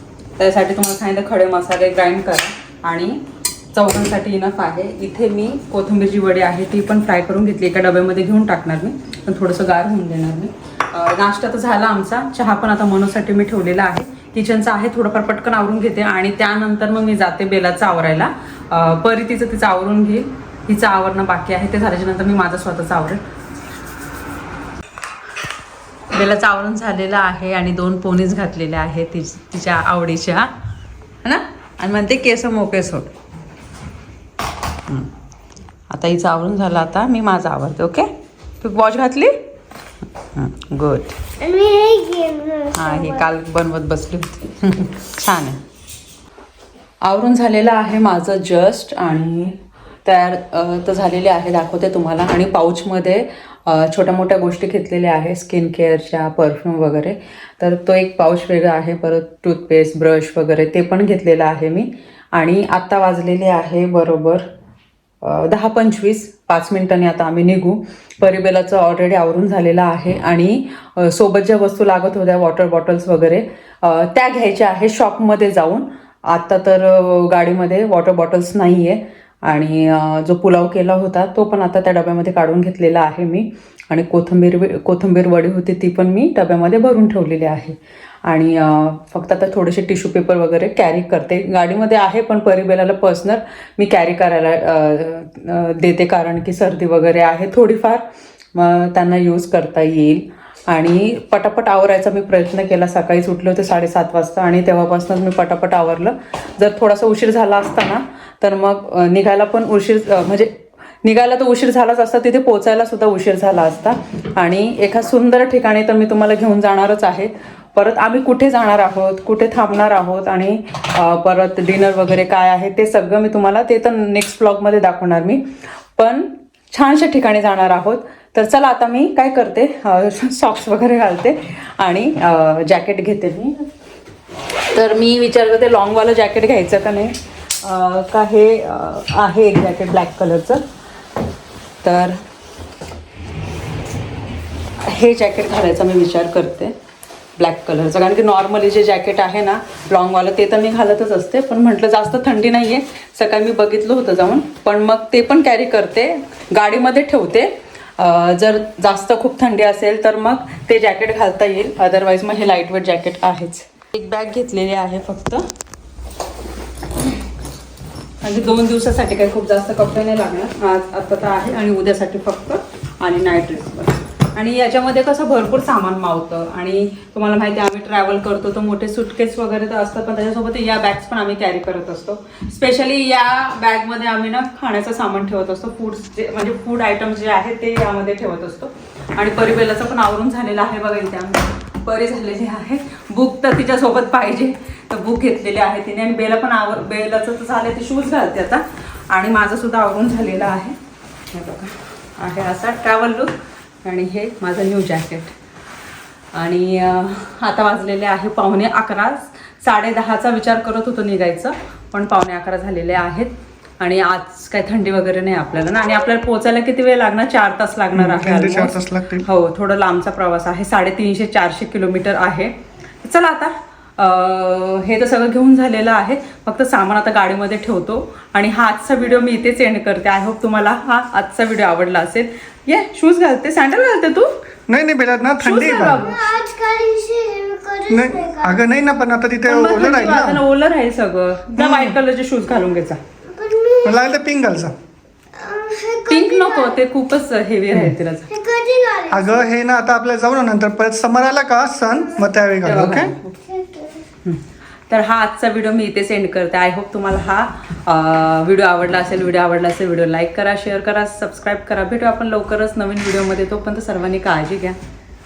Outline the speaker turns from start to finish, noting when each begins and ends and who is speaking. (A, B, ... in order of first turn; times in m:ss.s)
0:00.4-0:23.2 A
0:26.1-0:30.5 A
0:31.2-0:33.1 A
0:35.9-0:39.4 A
0:40.2-0:41.2 A
0:41.4-0:42.9 B
0:42.7-0:45.6 A
0:47.0-1:04.5 A
1:05.2-2:13.7 A
2:14.7-2:20.6 A
2:21.8-2:22.2 A
2:24.8-2:26.8 A
2:27.4-2:45.5 A
2:48.2-3:20.8 A
3:21.3-3:25.4 A
3:26.3-3:54.4 A
3:37.9-3:39.3 C
3:54.7-3:56.1 C
3:55.4-3:56.3 A
3:56.2-3:58.5 B
3:57.9-4:00.4 C
3:59.5-4:03.0 A
4:01.6-4:02.0 C
4:03.3-4:04.0 B
4:03.8-4:04.7 C
4:05.3-4:06.7 B
4:06.1-4:08.4 A
4:08.4-4:09.4 B
4:09.1-4:13.1 C
4:12.6-4:13.6 A
4:13.5-4:14.0 B
4:14.2-4:24.8 A